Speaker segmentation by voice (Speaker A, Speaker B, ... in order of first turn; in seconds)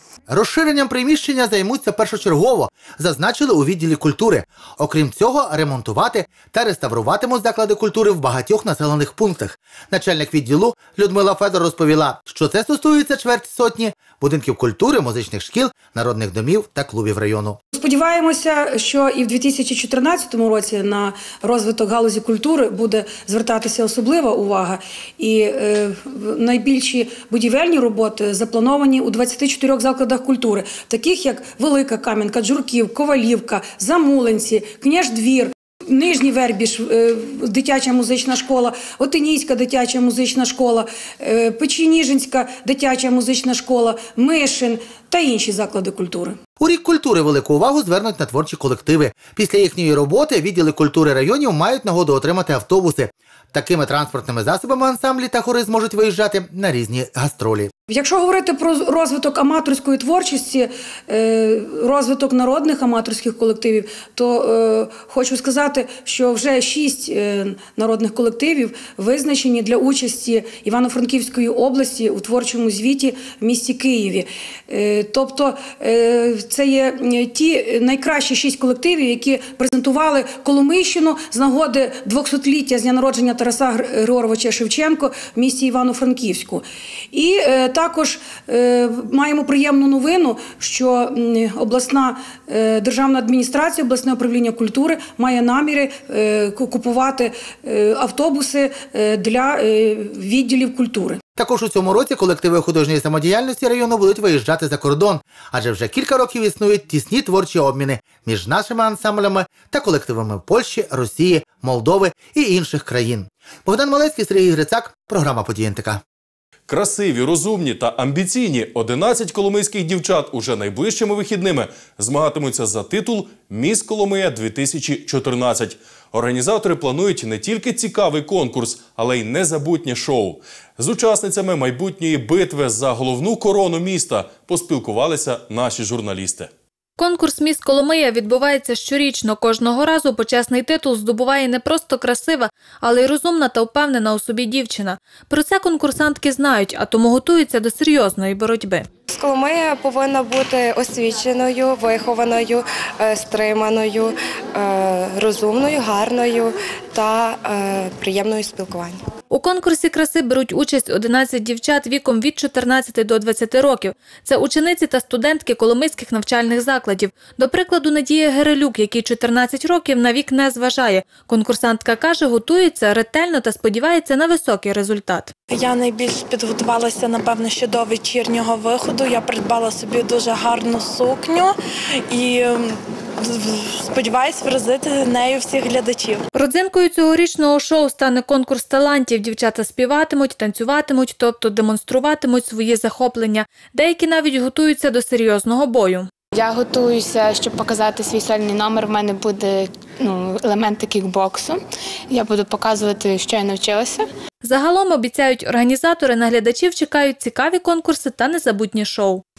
Speaker A: 0.3-17.6, 46.6-57.7, 101.3-116.0
Speaker B: 17.7-46.4, 57.9-101.2
Speaker C: 116.7-136.5
Speaker D: 137.0-148.9, 159.3-175.3, 186.3-196.1, 204.4-209.2
Speaker E: 149.1-159.0
Speaker F: 175.5-181.5, 182.1-186.2
Speaker G: 196.3-204.1